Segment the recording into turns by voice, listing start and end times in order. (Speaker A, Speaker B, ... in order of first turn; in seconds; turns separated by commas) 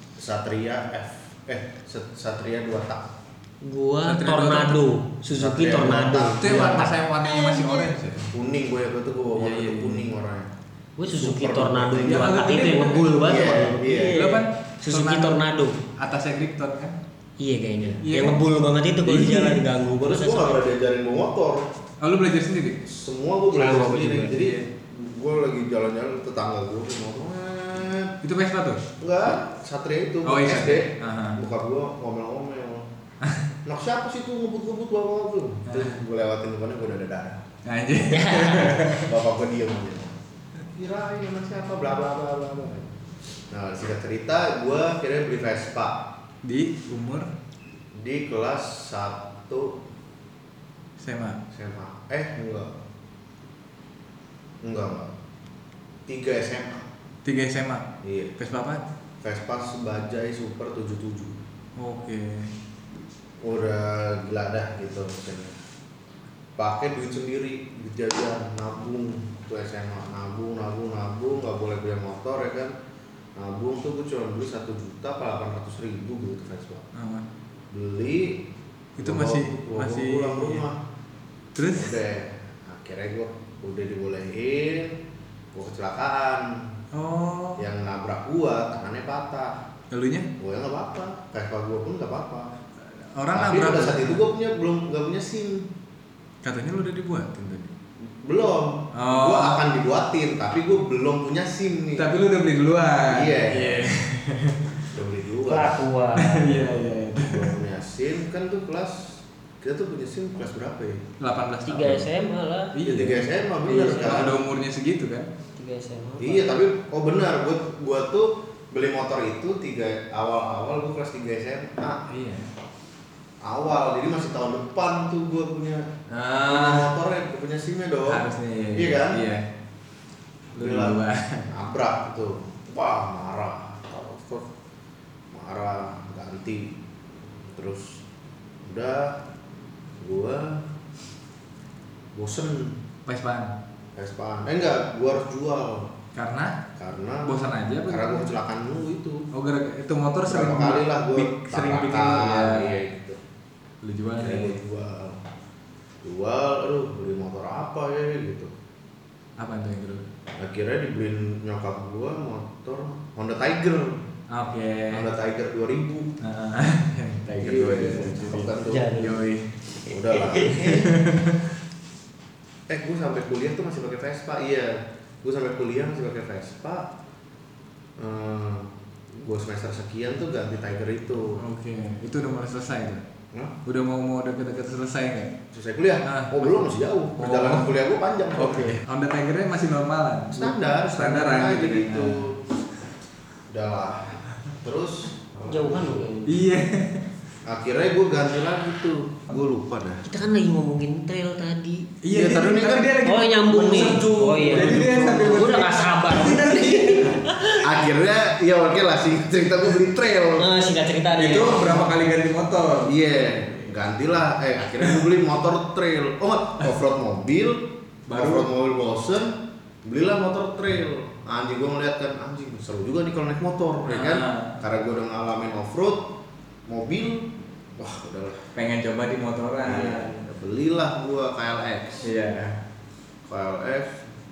Speaker A: 0.2-3.1, Speaker B: 3.6-7.8, Speaker C: 4.0-4.8, Speaker A: 5.3-6.9, Speaker C: 6.3-8.3, Speaker A: 8.3-10.5, Speaker C: 9.3-10.0, Speaker B: 11.0-15.8, Speaker A: 11.1-12.4, Speaker C: 12.0-15.4, Speaker A: 13.2-14.3, Speaker C: 15.9-17.0, Speaker B: 17.4-20.6, Speaker C: 18.0-18.4, Speaker C: 19.0-19.6, Speaker A: 19.9-21.7, Speaker C: 22.0-22.8, Speaker A: 22.8-28.1, Speaker B: 23.5-24.3, Speaker C: 24.3-24.6, Speaker C: 28.2-28.8, Speaker A: 29.0-32.9, Speaker C: 30.2-31.4, Speaker A: 33.6-37.4, Speaker C: 35.7-36.0, Speaker C: 37.6-39.1, Speaker B: 38.1-38.8, Speaker A: 38.8-40.2, Speaker A: 40.7-42.9, Speaker A: 43.5-46.0, Speaker C: 46.4-47.3, Speaker A: 48.0-49.8, Speaker C: 51.0-51.4, Speaker A: 51.5-52.8, Speaker A: 54.6-55.1, Speaker A: 56.1-56.9, Speaker C: 57.2-57.9, Speaker A: 58.0-58.3, Speaker C: 58.4-58.8, Speaker A: 59.2-61.4, Speaker C: 61.8-62.5, Speaker A: 63.4-65.5, Speaker A: 66.6-72.7, Speaker A: 73.3-76.8, Speaker C: 76.9-77.2, Speaker A: 77.7-78.4, Speaker C: 79.0-80.6, Speaker A: 79.0-80.8, Speaker C: 81.5-82.0, Speaker A: 81.7-85.0, Speaker A: 85.5-86.7, Speaker C: 86.9-87.6, Speaker A: 87.6-89.6, Speaker C: 89.9-90.3, Speaker A: 90.4-92.5, Speaker C: 93.1-94.2, Speaker A: 93.3-95.7, Speaker C: 96.4-97.7, Speaker A: 98.2-102.1, Speaker C: 98.9-99.6, Speaker C: 102.0-104.7, Speaker A: 103.1-103.9, Speaker A: 104.9-105.8, Speaker B: 105.5-106.8, Speaker C: 106.2-107.5, Speaker A: 107.1-111.0, Speaker C: 111.2-112.1, Speaker B: 111.6-112.8, Speaker C: 112.7-115.3, Speaker A: 112.8-114.4, Speaker B: 115.6-116.5, Speaker A: 116.2-122.0, Speaker C: 122.1-122.5, Speaker A: 123.4-125.8, Speaker C: 126.1-126.9, Speaker A: 126.5-128.2, Speaker C: 128.1-129.4, Speaker A: 128.7-129.2, Speaker C: 130.6-131.5, Speaker A: 130.6-131.0, Speaker A: 131.5-134.5, Speaker A: 135.3-136.7, Speaker A: 137.4-138.0, Speaker A: 138.6-139.2, Speaker A: 140.0-140.7, Speaker A: 142.1-142.8, Speaker C: 143.1-143.5, Speaker A: 144.0-145.9, Speaker C: 146.1-146.6, Speaker A: 146.8-147.3, Speaker C: 147.2-148.2, Speaker A: 147.9-149.2, Speaker C: 149.3-152.8, Speaker A: 150.2-153.2, Speaker C: 153.8-154.6, Speaker A: 154.2-155.2, Speaker A: 156.0-158.5, Speaker C: 159.4-160.1, Speaker A: 160.3-164.1, Speaker C: 164.3-165.1, Speaker A: 164.9-166.1, Speaker C: 166.2-169.5, Speaker A: 167.4-168.9, Speaker B: 168.7-169.2, Speaker A: 169.9-170.9, Speaker B: 170.1-170.7, Speaker C: 170.3-171.4, Speaker A: 172.7-176.9, Speaker A: 178.0-181.4, Speaker C: 181.4-183.0, Speaker C: 183.6-185.3, Speaker A: 185.5-188.8, Speaker C: 186.0-187.7, Speaker C: 188.3-192.3, Speaker A: 190.3-192.4, Speaker A: 193.5-196.3, Speaker B: 195.5-196.3, Speaker C: 196.3-197.1, Speaker A: 197.4-200.1, Speaker B: 200.0-201.9, Speaker C: 202.0-207.3, Speaker A: 202.1-205.7, Speaker B: 203.0-207.7, Speaker A: 207.6-210.5, Speaker B: 210.3-211.9, Speaker C: 211.1-212.9, Speaker A: 212.8-226.1, Speaker C: 218.1-218.5, Speaker C: 223.9-224.6, Speaker A: 226.7-228.4, Speaker C: 228.5-230.2, Speaker A: 229.6-232.1, Speaker C: 232.0-232.6, Speaker A: 233.2-234.0